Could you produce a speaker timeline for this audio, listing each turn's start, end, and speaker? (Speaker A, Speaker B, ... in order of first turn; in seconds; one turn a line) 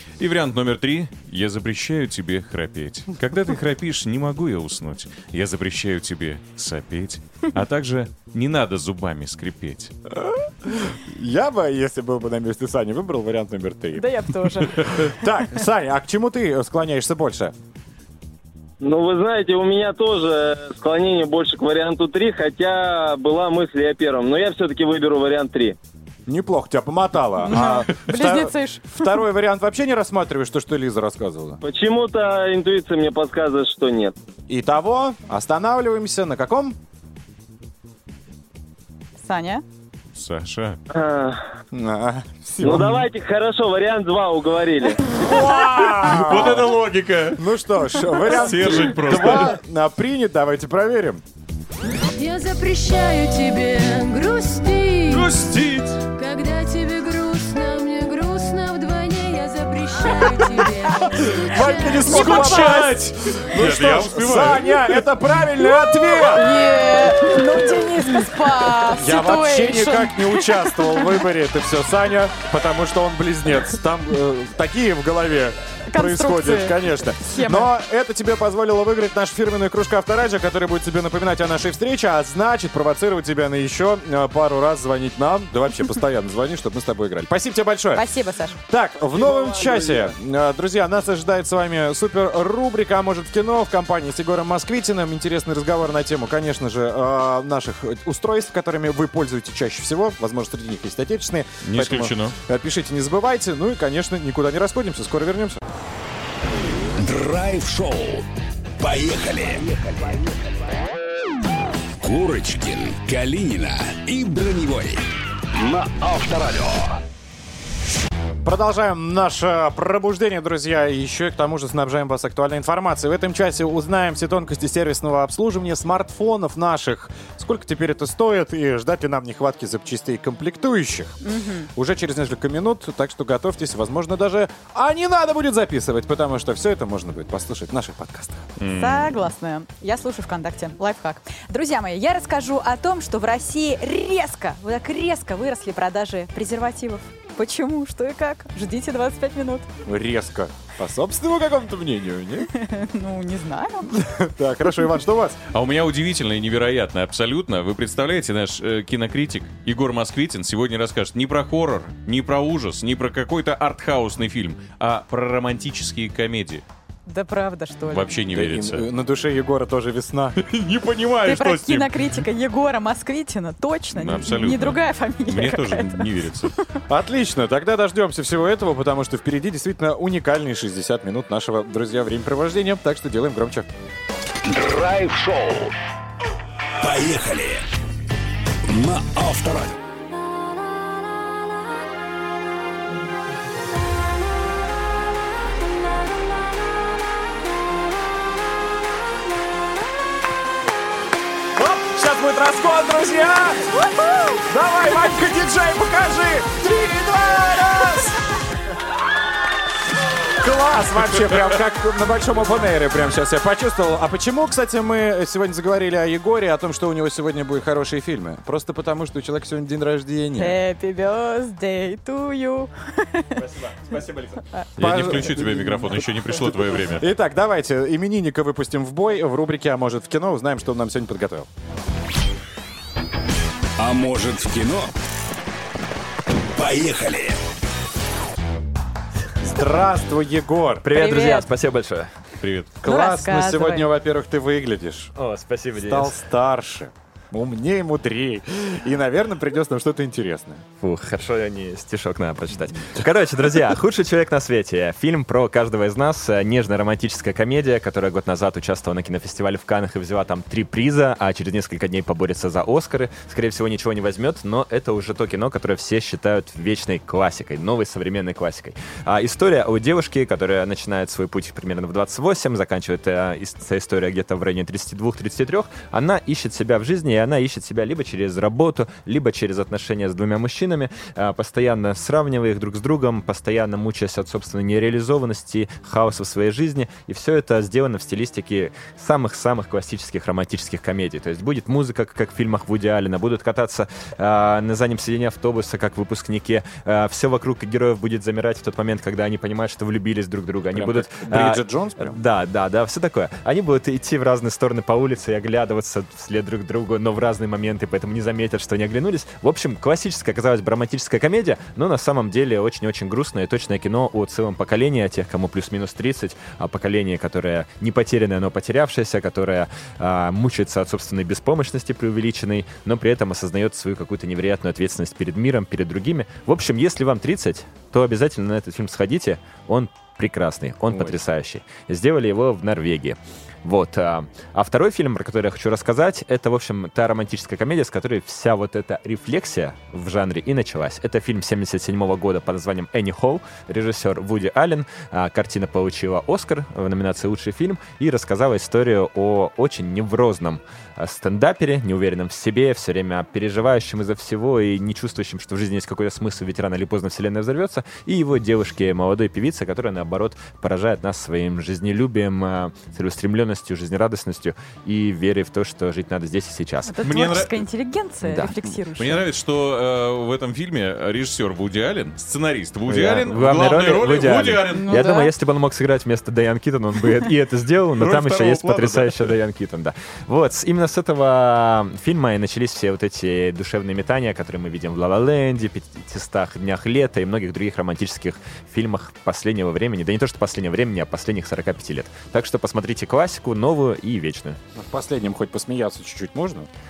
Speaker A: 0.2-9.9
Speaker B: 10.1-17.5
Speaker C: 13.9-15.2
Speaker D: 18.8-25.7
Speaker B: 26.3-31.6
Speaker C: 27.5-29.2
Speaker D: 31.6-34.1
Speaker B: 34.5-36.8
Speaker C: 39.2-39.6
Speaker A: 40.1-40.8
Speaker D: 40.9-41.4
Speaker B: 41.7-43.0
Speaker D: 42.6-45.1
Speaker B: 45.1-46.7
Speaker A: 45.9-47.4
Speaker B: 47.3-51.2
Speaker A: 48.2-49.5
Speaker E: 52.1-55.4
Speaker A: 55.1-56.0
Speaker E: 56.0-62.7
Speaker B: 61.4-66.6
Speaker C: 62.0-63.0
Speaker A: 62.0-64.9
Speaker C: 66.2-71.1
Speaker B: 68.8-88.0
Speaker C: 75.9-77.7
Speaker C: 87.9-88.6
Speaker B: 88.7-105.6
Speaker D: 89.2-90.0
Speaker A: 101.6-102.3
Speaker F: 106.8-108.2
Speaker F: 108.8-110.2
Speaker F: 112.0-115.0
Speaker F: 115.5-117.0
Speaker B: 118.4-131.2
Speaker C: 131.2-131.7
Speaker B: 131.7-138.5
Speaker A: 138.6-139.3
Speaker C: 138.6-149.7
Speaker B: 149.8-152.5
Speaker C: 152.5-153.9
Speaker B: 153.9-155.4
Speaker A: 155.5-166.6
Speaker C: 167.1-168.2
Speaker A: 167.9-168.8
Speaker B: 168.3-170.4
Speaker A: 170.4-172.1
Speaker C: 171.2-176.1
Speaker A: 173.9-176.5
Speaker B: 176.9-183.7
Speaker F: 184.4-185.7
Speaker F: 186.8-187.6
Speaker F: 188.7-189.8
Speaker B: 201.6-203.8
Speaker B: 204.4-208.2
Speaker B: 210.3-220.6
Speaker C: 220.4-223.5
Speaker B: 224.8-226.1
Speaker A: 224.8-227.0
Speaker B: 226.9-231.5
Speaker F: 233.8-234.9
Speaker F: 236.5-237.3
Speaker B: 239.4-240.9
Speaker G: 240.8-242.1
Speaker C: 240.9-241.5
Speaker A: 242.4-242.7
Speaker B: 242.8-245.1
Speaker C: 242.8-243.9
Speaker G: 245.2-246.2
Speaker B: 245.8-250.7
Speaker G: 250.8-367.0
Speaker B: 300.7-302.2
Speaker B: 330.9-331.2
Speaker C: 366.9-369.2
Speaker A: 367.0-367.6
Speaker G: 368.2-368.5
Speaker A: 369.0-375.1
Speaker G: 372.9-394.6
Speaker C: 374.7-375.3
Speaker A: 378.0-379.4
Speaker B: 394.8-396.7